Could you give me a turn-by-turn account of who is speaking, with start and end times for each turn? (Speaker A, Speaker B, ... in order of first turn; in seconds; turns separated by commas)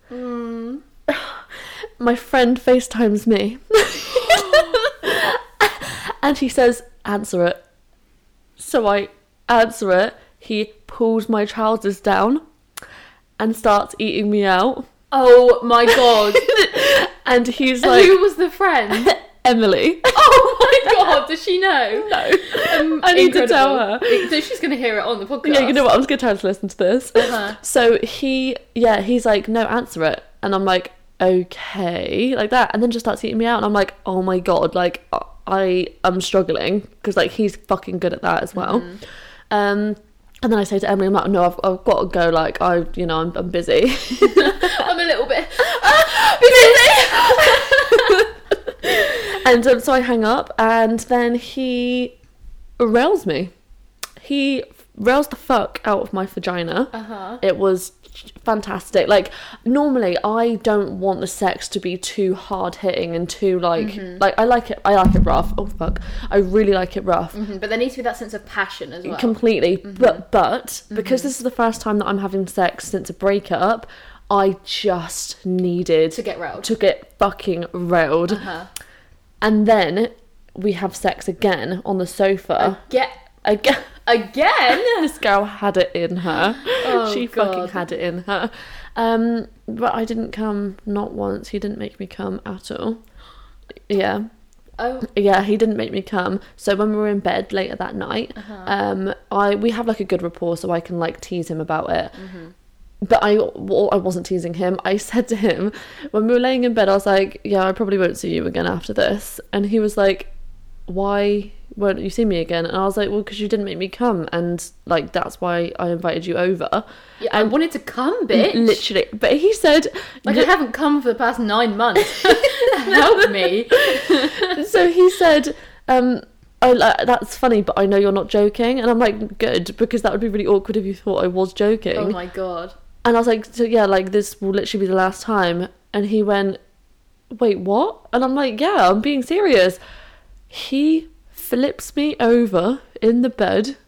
Speaker A: 0.1-0.8, Speaker B: 1.1-7.6, Speaker A: 4.3-4.8, Speaker B: 8.6-12.4, Speaker B: 13.4-14.9, Speaker A: 15.1-16.5, Speaker B: 15.9-18.2, Speaker A: 17.8-19.1, Speaker B: 18.9-21.1, Speaker A: 20.1-25.9, Speaker B: 21.9-24.3, Speaker B: 25.4-39.0, Speaker A: 27.2-27.6, Speaker A: 38.5-39.0, Speaker B: 39.5-44.9, Speaker A: 44.2-48.3, Speaker B: 45.8-52.2, Speaker B: 52.8-53.5, Speaker B: 54.2-67.4, Speaker A: 56.9-57.4, Speaker A: 63.8-64.2, Speaker A: 67.3-70.2, Speaker B: 69.0-78.5, Speaker A: 70.9-71.3, Speaker A: 76.1-76.7, Speaker A: 78.3-78.7, Speaker B: 79.4-82.8, Speaker A: 82.6-83.2, Speaker B: 83.4-84.0, Speaker A: 84.1-85.1, Speaker B: 84.7-93.0, Speaker A: 86.6-87.9, Speaker B: 93.9-94.3, Speaker A: 94.8-95.1, Speaker B: 95.0-102.2, Speaker A: 98.4-98.7, Speaker A: 102.2-102.5, Speaker B: 103.0-110.3, Speaker B: 110.9-117.5, Speaker A: 117.2-118.8, Speaker B: 118.3-120.5, Speaker A: 120.2-124.6, Speaker B: 122.1-132.2, Speaker A: 131.9-132.7, Speaker B: 133.0-136.6, Speaker B: 137.3-139.8, Speaker B: 140.5-143.8